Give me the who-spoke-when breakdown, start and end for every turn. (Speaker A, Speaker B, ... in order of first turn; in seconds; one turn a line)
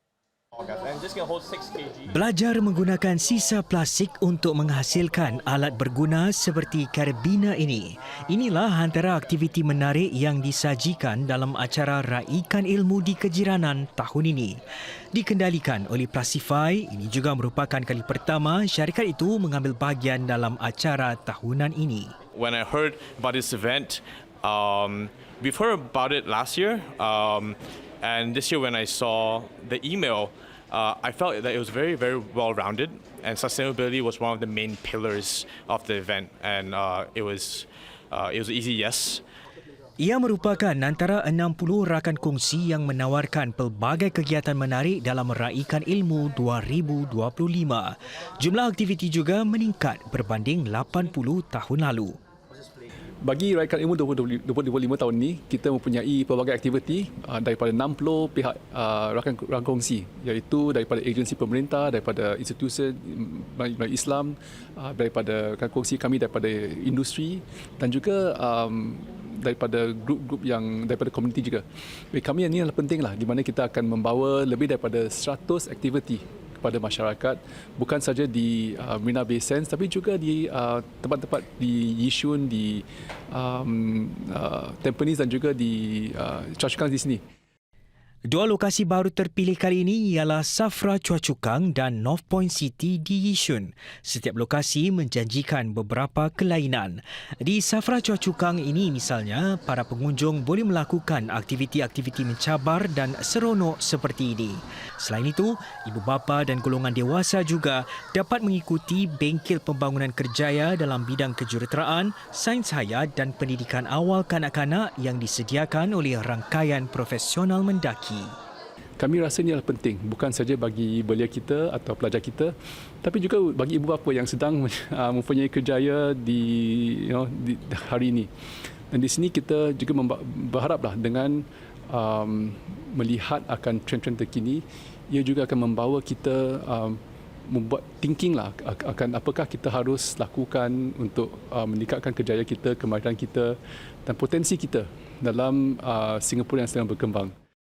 Speaker A: 0.6-2.1
Speaker B: 2.1-14.6
Speaker B: 15.1-22.1
Speaker A: 22.3-39.2
Speaker B: 40.0-52.2
Speaker C: 53.2-87.2
Speaker B: 88.3-118.3
Speaker C: 119.0-128.3
Speaker C: 128.9-147.3